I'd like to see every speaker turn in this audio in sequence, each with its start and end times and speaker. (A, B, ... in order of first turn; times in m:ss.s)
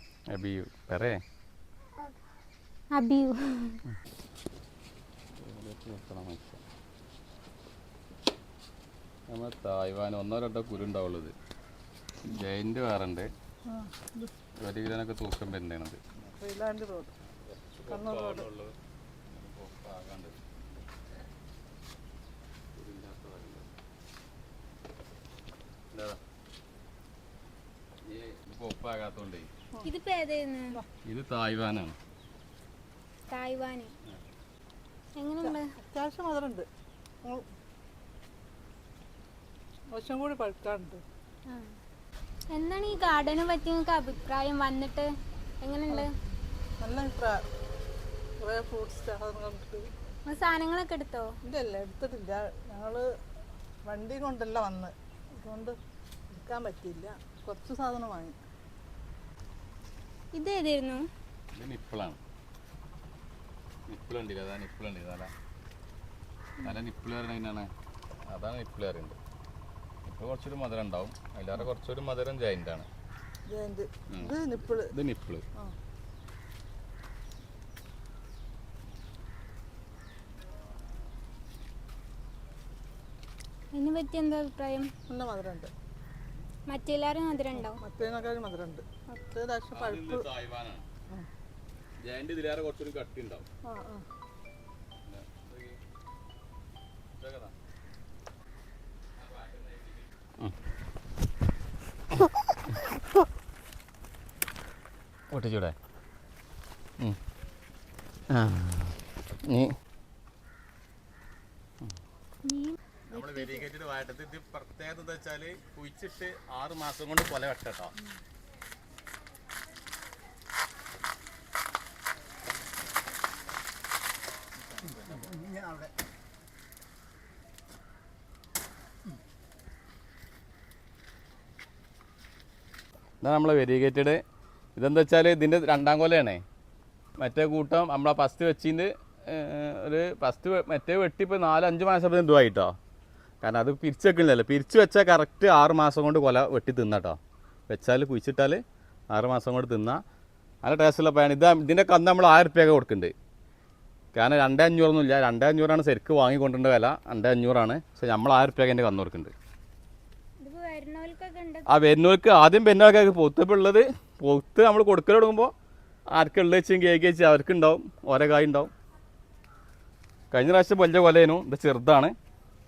0:00.3-0:01.2 A
0:02.9-0:03.8 B
0:05.4-0:06.6 A
0:09.3-0:11.3 A
0:12.2-0:13.3 A
0:13.7-0:14.3 C
0:14.6-0:16.0 A
0:16.4-0:17.1 C
0:17.4-0:18.7 A
0:17.9-0:18.4 C
0:19.3-0:20.4 A
0:22.8-0:23.7 A
0:25.9-0:26.2 A
0:28.0-0:29.5 A
0:29.8-0:30.8 B
0:31.0-0:31.9 A
0:33.3-0:33.9 B
0:35.1-0:35.7 B
0:35.4-0:36.7 C
0:39.9-0:41.0 C
0:42.5-0:46.1 B
0:46.8-0:47.4 C
0:48.4-0:49.9 C
0:50.2-0:51.3 B
0:51.4-0:53.1 C
0:53.8-0:55.8 C
0:56.3-0:58.4 C
1:00.3-1:01.1 B
1:01.5-1:02.2 A
1:03.9-1:05.3 A
1:06.6-1:07.7 A
1:08.3-1:09.2 A
1:10.0-1:12.9 A
1:13.5-1:14.9 C
1:14.1-1:15.4 A
1:23.7-1:24.9 B
1:25.1-1:25.7 C
1:26.7-1:27.8 B
1:27.6-1:30.2 C
1:29.7-1:30.8 A
1:32.0-1:33.4 A
1:33.6-1:34.0 C
1:35.0-1:35.8 A
1:37.2-1:37.5 A
1:45.3-1:45.7 A
1:48.3-1:49.7 A
1:52.4-1:53.6 B
1:53.1-1:57.9 A
2:13.2-2:14.2 A
2:14.8-2:16.4 A
2:17.2-2:22.7 A
2:23.4-2:27.2 A
2:27.7-2:30.0 A
2:30.6-2:33.1 A
2:34.1-2:39.3 A
2:40.4-2:41.8 B
2:41.7-2:45.5 A
2:46.1-2:48.7 A
2:50.3-2:52.1 A